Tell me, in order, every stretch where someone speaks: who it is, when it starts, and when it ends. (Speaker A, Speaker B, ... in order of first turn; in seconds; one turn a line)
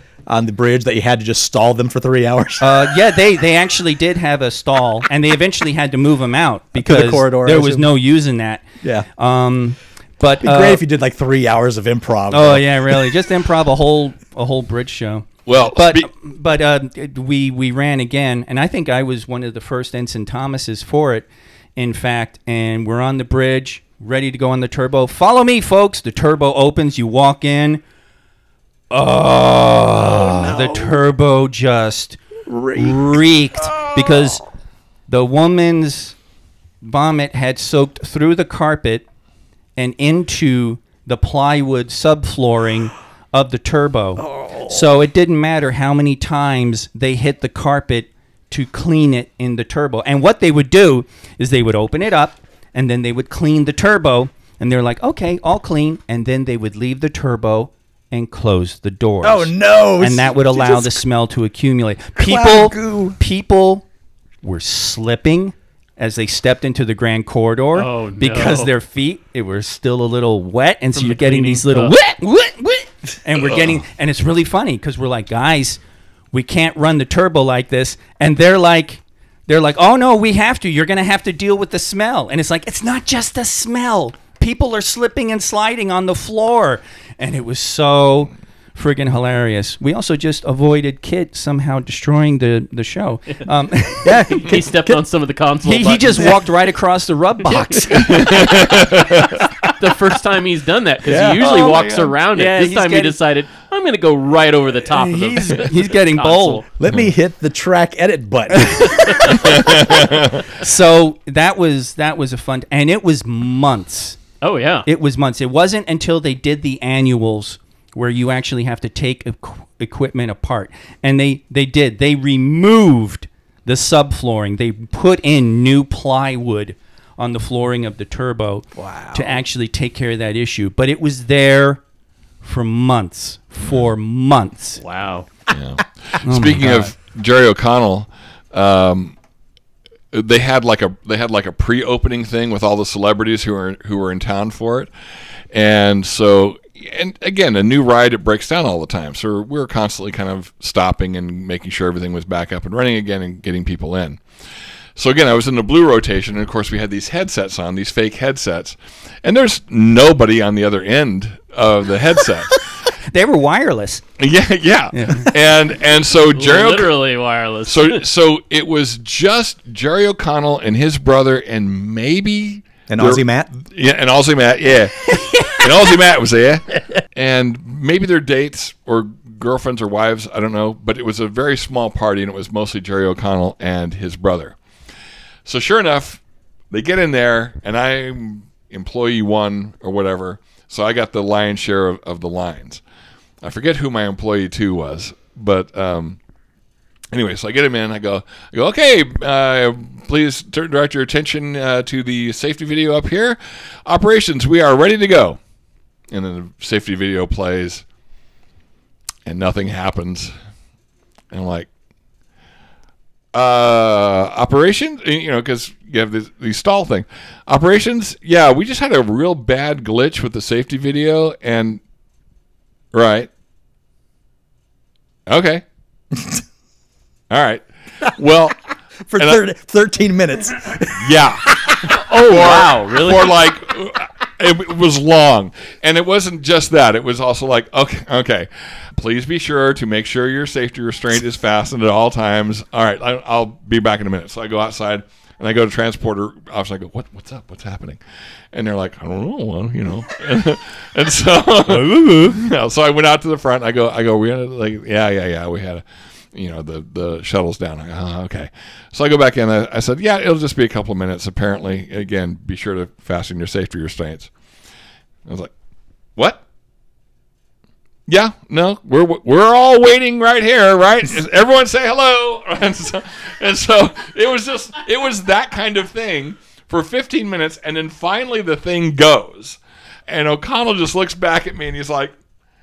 Speaker A: 0.3-2.9
Speaker B: 2.6-10.8
Speaker A: 6.8-7.9
Speaker A: 8.8-9.1
Speaker A: 10.4-13.1
Speaker B: 12.3-27.8
Speaker C: 15.4-16.1
Speaker B: 28.9-32.2
Speaker A: 30.1-31.0
Speaker A: 32.5-34.3
Speaker B: 32.7-34.4
Speaker B: 35.1-36.2
Speaker B: 36.8-39.0
Speaker B: 39.8-63.9
Speaker A: 44.2-44.8
Speaker A: 59.2-61.0
Speaker A: 62.1-63.2
Speaker B: 64.4-75.8
Speaker D: 67.7-68.7
Speaker D: 70.9-71.9
Speaker B: 76.3-94.5
Speaker A: 94.0-95.0
Speaker D: 94.3-96.3
Speaker B: 95.6-98.5
Speaker C: 97.9-99.4
Speaker D: 99.6-106.7
Speaker C: 101.0-102.1
Speaker B: 102.3-103.2
Speaker B: 104.9-106.6
Speaker A: 106.8-109.8
Speaker B: 108.6-109.0
Speaker C: 109.3-110.5
Speaker B: 110.5-114.2
Speaker D: 114.4-114.8
Speaker B: 114.8-131.8
Speaker A: 128.8-129.4
Speaker B: 132.4-134.8
Speaker D: 134.8-135.3
Speaker C: 135.5-139.2
Speaker B: 136.2-136.9
Speaker C: 140.1-144.9
Speaker C: 145.5-154.2
Speaker C: 154.9-162.6
Speaker B: 163.1-164.0
Speaker C: 164.2-166.9
Speaker B: 164.9-165.3
Speaker D: 166.3-168.0
Speaker C: 167.7-184.6
Speaker A: 172.9-173.5
Speaker C: 185.4-192.8
Speaker C: 193.4-196.2
Speaker C: 197.1-205.4
Speaker C: 206.1-207.8
Speaker C: 209.2-210.3
Speaker C: 211.3-211.7
Speaker C: 213.3-221.8
Speaker C: 222.9-223.3
Speaker C: 225.3-225.6
Speaker C: 227.3-228.6
Speaker A: 229.1-231.8
Speaker C: 231.0-248.0
Speaker D: 231.9-233.4
Speaker C: 248.5-264.3
Speaker B: 251.7-252.4
Speaker C: 265.2-265.5
Speaker C: 268.1-282.1